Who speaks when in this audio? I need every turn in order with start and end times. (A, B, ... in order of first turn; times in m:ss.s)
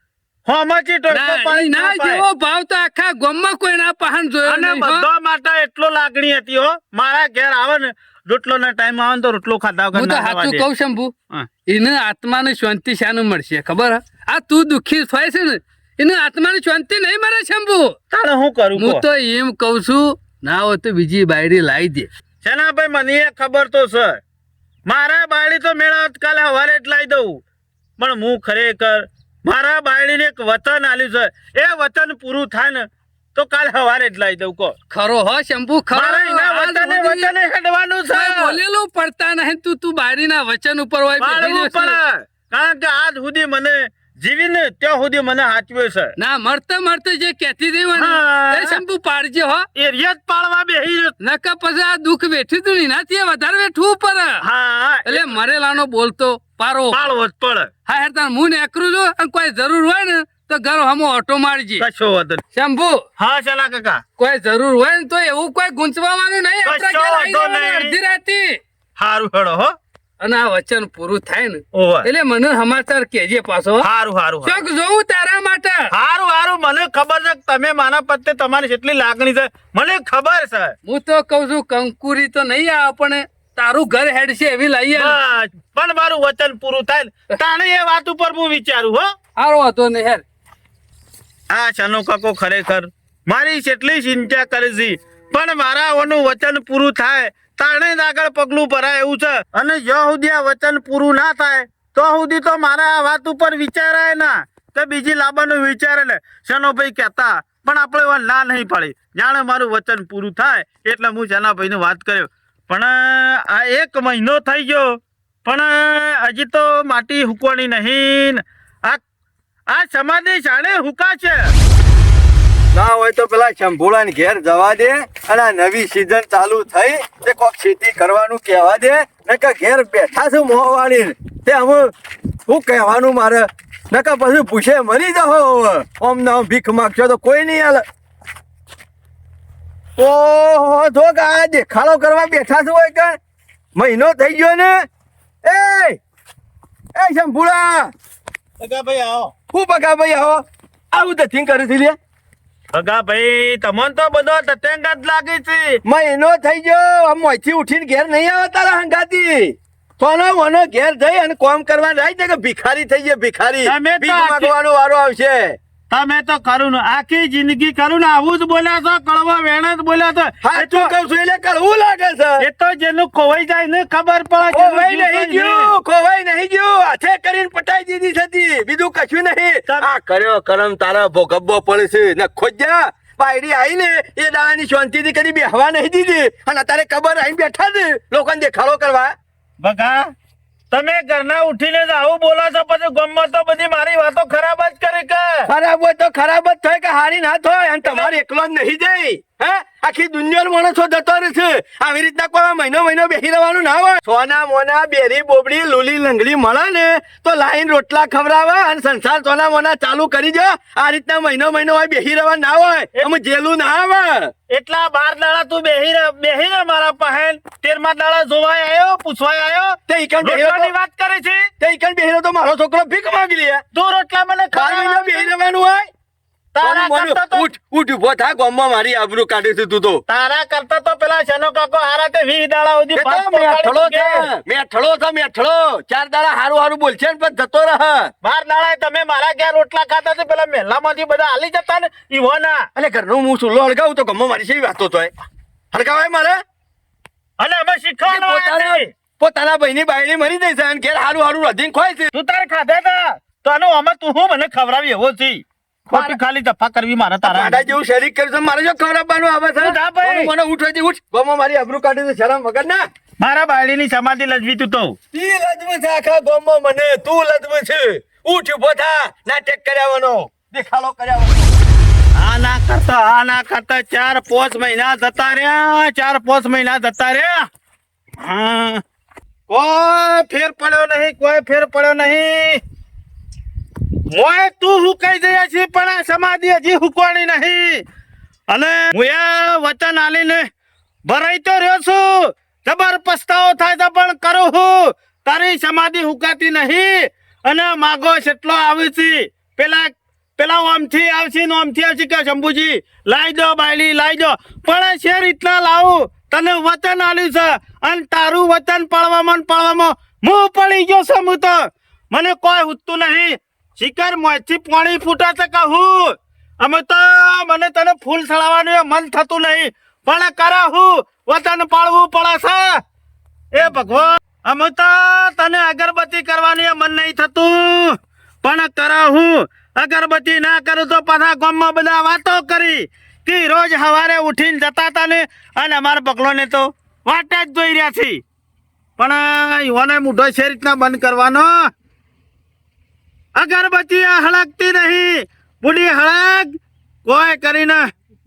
0:00.5-0:02.2 A
0:01.1-0:05.1 B
0:04.4-0:10.6 A
0:09.9-0:11.2 B
0:11.7-0:18.0 B
0:18.1-0:19.0 A
0:18.8-0:22.1 B
0:22.4-0:24.2 A
0:24.9-0:27.4 A
0:28.0-0:34.8 A
0:34.9-0:37.3 B
0:35.9-0:38.6 A
0:38.1-0:42.0 B
0:41.2-0:46.1 A
0:46.2-0:49.7 B
0:48.0-0:48.8 A
0:49.8-0:51.1 A
0:51.2-0:54.4 B
0:54.4-0:55.2 A
0:55.1-0:57.1 B
0:56.9-0:57.7 A
0:57.9-1:01.8 B
1:01.8-1:02.4 A
1:02.6-1:03.0 B
1:03.2-1:04.0 A
1:04.2-1:08.6 B
1:06.6-1:08.0 A
1:09.0-1:09.8 A
1:10.2-1:13.9 B
1:11.7-1:12.1 A
1:13.8-1:14.6 A
1:14.4-1:15.9 B
1:15.9-1:20.8 A
1:20.9-1:25.2 B
1:25.0-1:29.1 A
1:29.4-1:30.2 B
1:31.5-1:59.0 A
1:59.7-2:01.5 A
2:02.7-2:11.9 C
2:12.5-2:17.8 C
2:20.0-2:23.2 C
2:23.8-2:24.9 C
2:25.4-2:26.0 C
2:27.0-2:27.9 C
2:28.6-2:29.4 A
2:29.5-2:32.0 C
2:32.7-2:35.8 A
2:35.8-2:45.6 C
2:43.6-2:44.5 A
2:45.9-2:50.9 A
2:50.4-2:52.5 C
2:52.4-2:55.7 A
2:54.5-3:09.2 C
3:09.6-3:10.1 A
3:10.7-3:15.5 A
3:15.5-3:34.3 C
3:34.5-3:41.5 A
3:39.9-3:40.7 C
3:41.6-3:43.6 C
3:43.7-3:45.3 A
3:44.5-3:45.9 C
3:46.5-3:47.5 A
3:46.6-3:50.0 C
3:50.1-3:54.3 A
3:53.0-3:58.1 C
3:58.2-4:02.7 A
4:02.8-4:05.1 C
4:05.7-4:06.4 C
4:07.4-4:08.9 A
4:08.0-4:12.1 C
4:12.1-4:17.6 A
4:15.9-4:16.2 C
4:17.2-4:22.9 C
4:19.6-4:20.3 A
4:23.2-4:25.0 A
4:25.1-4:31.5 C
4:32.2-4:37.5 A
4:38.2-4:38.8 A
4:39.5-4:42.6 A
4:44.1-4:47.8 A
4:48.5-4:50.5 A
4:51.1-5:22.8 A
5:23.5-5:38.2 A
5:39.0-5:41.7 A
5:43.4-5:47.9 A